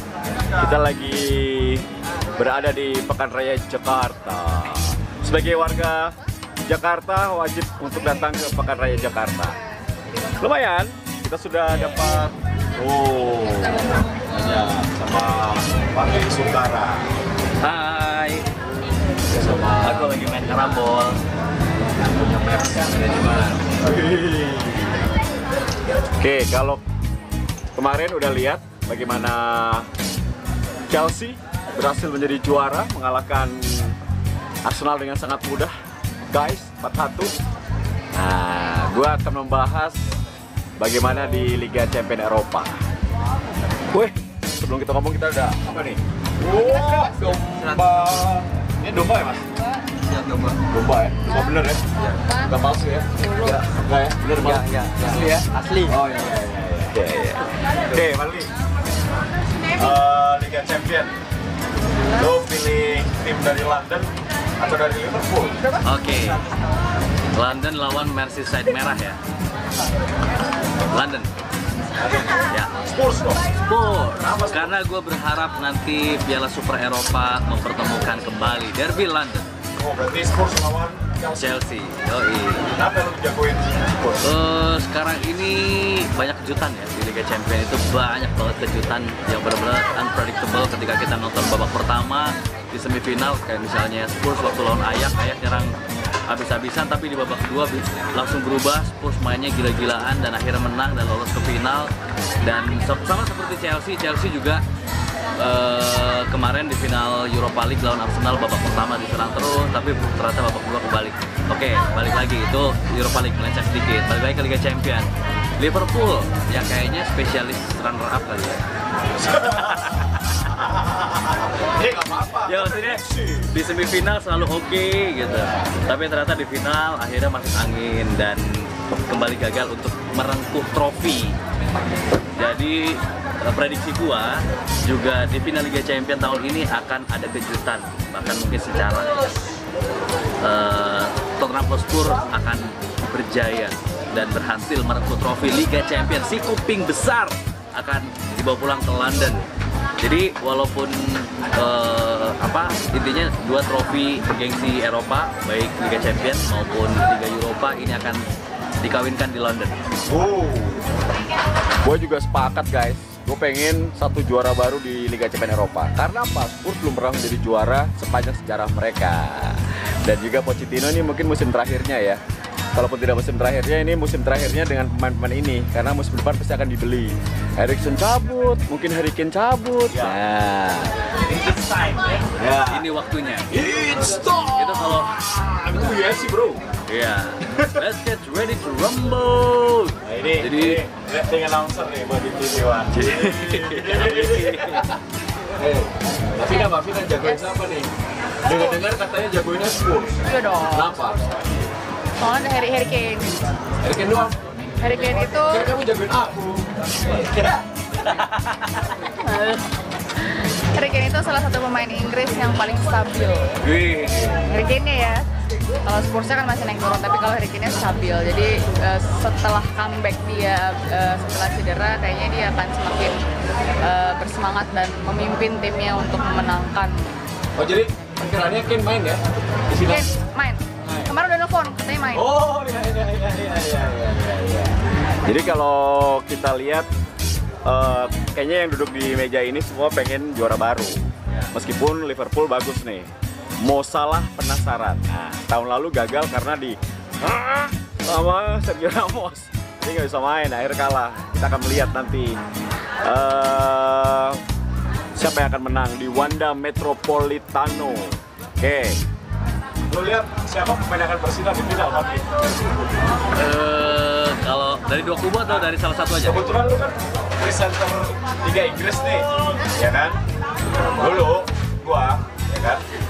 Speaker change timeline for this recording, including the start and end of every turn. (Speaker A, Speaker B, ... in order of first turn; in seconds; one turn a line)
Speaker A: 0.5-9.6
Speaker A: 10.4-17.1
Speaker B: 17.6-18.5
Speaker A: 19.3-20.1
Speaker B: 19.7-21.2
Speaker A: 22.2-25.0
Speaker A: 26.2-26.8
Speaker A: 27.8-29.9
Speaker A: 30.9-34.0
Speaker A: 34.6-35.7
Speaker A: 36.3-37.3
Speaker A: 38.1-40.0
Speaker A: 40.8-42.7
Speaker A: 43.9-49.5
Speaker C: 46.6-47.0
Speaker A: 50.5-58.5
Speaker C: 51.3-51.5
Speaker C: 52.2-52.5
Speaker A: 59.7-61.1
Speaker A: 62.1-65.6
Speaker B: 65.8-66.4
Speaker B: 67.3-69.2
Speaker B: 70.9-71.3
Speaker A: 72.0-73.4
Speaker B: 73.6-79.5
Speaker A: 74.2-74.8
Speaker A: 79.8-81.6
Speaker B: 81.3-82.8
Speaker A: 82.7-84.2
Speaker B: 84.2-95.8
Speaker B: 96.3-104.6
Speaker B: 105.4-118.6
Speaker A: 119.2-123.5
Speaker B: 119.5-120.0
Speaker B: 122.4-131.4
Speaker B: 132.3-139.3
Speaker B: 140.4-149.5
Speaker B: 150.0-158.2
Speaker B: 158.8-159.8
Speaker A: 160.1-160.9
Speaker A: 161.8-172.2
Speaker A: 172.7-181.0
Speaker B: 181.2-183.5
Speaker A: 182.3-182.8
Speaker A: 183.5-186.6
Speaker B: 184.5-185.1
Speaker B: 186.9-190.8
Speaker A: 190.0-197.9
Speaker B: 192.9-194.9
Speaker C: 196.4-197.6
Speaker A: 198.4-201.3
Speaker C: 200.2-201.1
Speaker C: 202.2-203.4
Speaker A: 203.8-204.4
Speaker C: 204.8-205.7
Speaker A: 205.0-207.6
Speaker B: 208.0-208.6
Speaker C: 209.1-213.5
Speaker B: 213.6-214.5
Speaker C: 214.4-215.3
Speaker C: 215.8-223.2
Speaker C: 223.8-227.2
Speaker A: 227.6-230.1
Speaker C: 229.8-232.3
Speaker A: 230.8-231.1
Speaker A: 232.1-236.9
Speaker A: 237.6-243.1
Speaker A: 243.6-252.4
Speaker A: 253.0-254.4
Speaker A: 255.1-259.0
Speaker A: 259.9-262.3
Speaker B: 263.3-266.5
Speaker A: 266.2-270.2
Speaker A: 270.8-272.8